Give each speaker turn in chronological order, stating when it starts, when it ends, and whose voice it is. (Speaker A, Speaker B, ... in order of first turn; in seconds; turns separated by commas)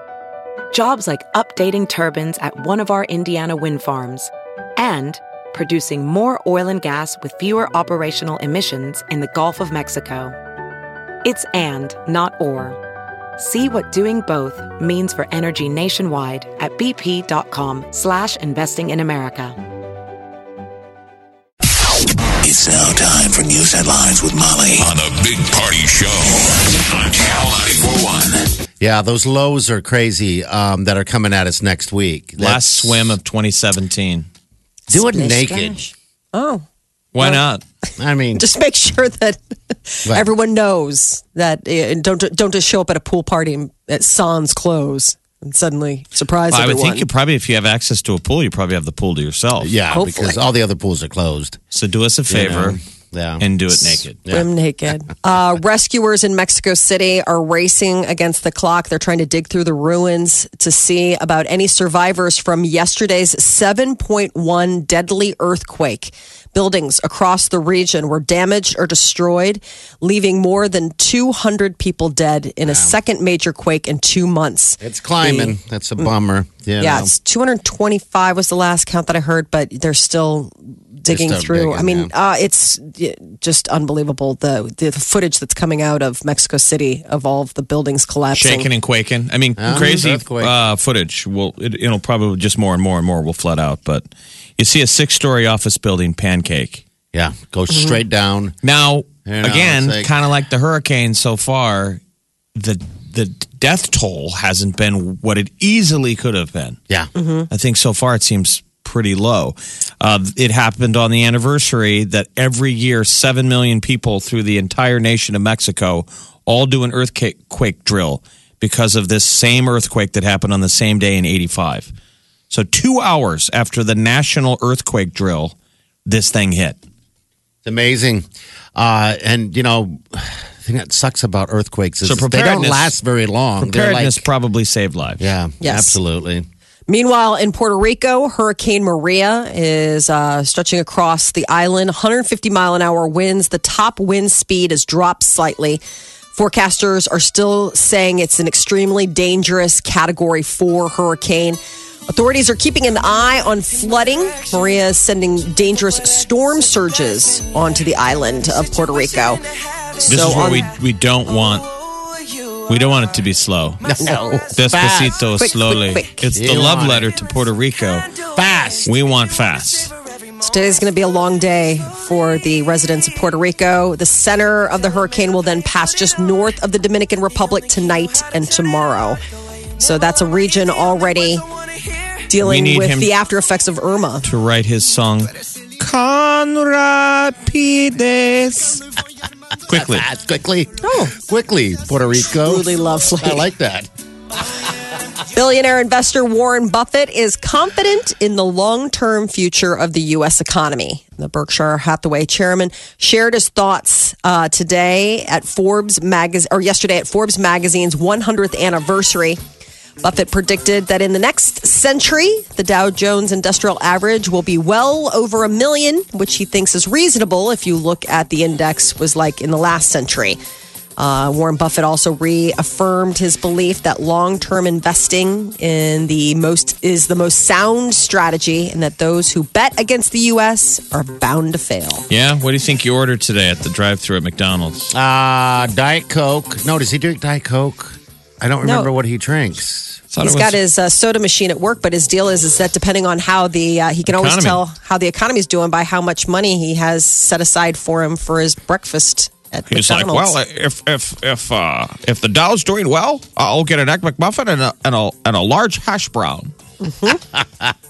Speaker A: 0.7-10.3, Speaker A: 11.2-12.8, Speaker A: 13.4-19.6, Speaker B: 22.4-28.4, Speaker C: 28.8-33.1, Speaker D: 32.4-34.3, Speaker E: 34.9-36.6, Speaker C: 34.9-35.8, Speaker D: 37.1-37.6, Speaker C: 38.0-38.4, Speaker E: 38.4-47.0, Speaker D: 46.5-49.7, Speaker C: 49.6-51.6, Speaker E: 49.9-50.4, Speaker D: 51.7-52.8, Speaker C: 52.3-54.5, Speaker D: 53.4-54.2, Speaker E: 54.3-76.1, Speaker C: 72.7-73.0, Speaker C: 74.8-77.1, Speaker E: 76.8-88.7, Speaker C: 81.1-82.1, Speaker D: 88.3-94.0, Speaker C: 89.6-90.5, Speaker D: 94.6-96.8, Speaker C: 97.1-98.5, Speaker E: 97.7-98.0, Speaker D: 98.6-102.0, Speaker C: 99.2-100.1, Speaker D: 102.5-106.8, Speaker E: 107.1-107.5, Speaker D: 107.5-121.9, Speaker D: 122.5-125.5, Speaker D: 126.0-126.8, Speaker C: 127.6-134.2, Speaker D: 132.0-132.9, Speaker D: 133.6-135.2, Speaker C: 135.2-136.5, Speaker E: 135.6-136.0, Speaker E: 136.9-145.8, Speaker E: 146.3-159.4, Speaker E: 160.0-160.7, Speaker D: 160.1-161.7, Speaker D: 162.7-163.8, Speaker C: 163.8-165.2, Speaker E: 164.0-164.4, Speaker D: 164.5-168.1, Speaker E: 165.4-166.3, Speaker C: 166.3-167.1, Speaker C: 168.3-168.9, Speaker D: 168.8-169.9, Speaker E: 170.4-179.2, Speaker E: 179.8-181.4, Speaker E: 182.3-184.2, Speaker D: 182.4-183.1, Speaker D: 184.2-188.8, Speaker D: 189.7-190.1, Speaker C: 189.7-193.9, Speaker E: 190.8-191.1, Speaker E: 192.4-193.5, Speaker E: 195.3-209.4, Speaker E: 210.0-220.4, Speaker E: 221.0-232.0, Speaker D: 232.1-234.9, Speaker C: 234.9-240.0, Speaker E: 238.6-238.9, Speaker D: 240.1-240.6, Speaker E: 240.2-250.3, Speaker D: 244.1-244.6, Speaker D: 249.7-256.5, Speaker E: 256.8-257.2, Speaker C: 257.3-257.7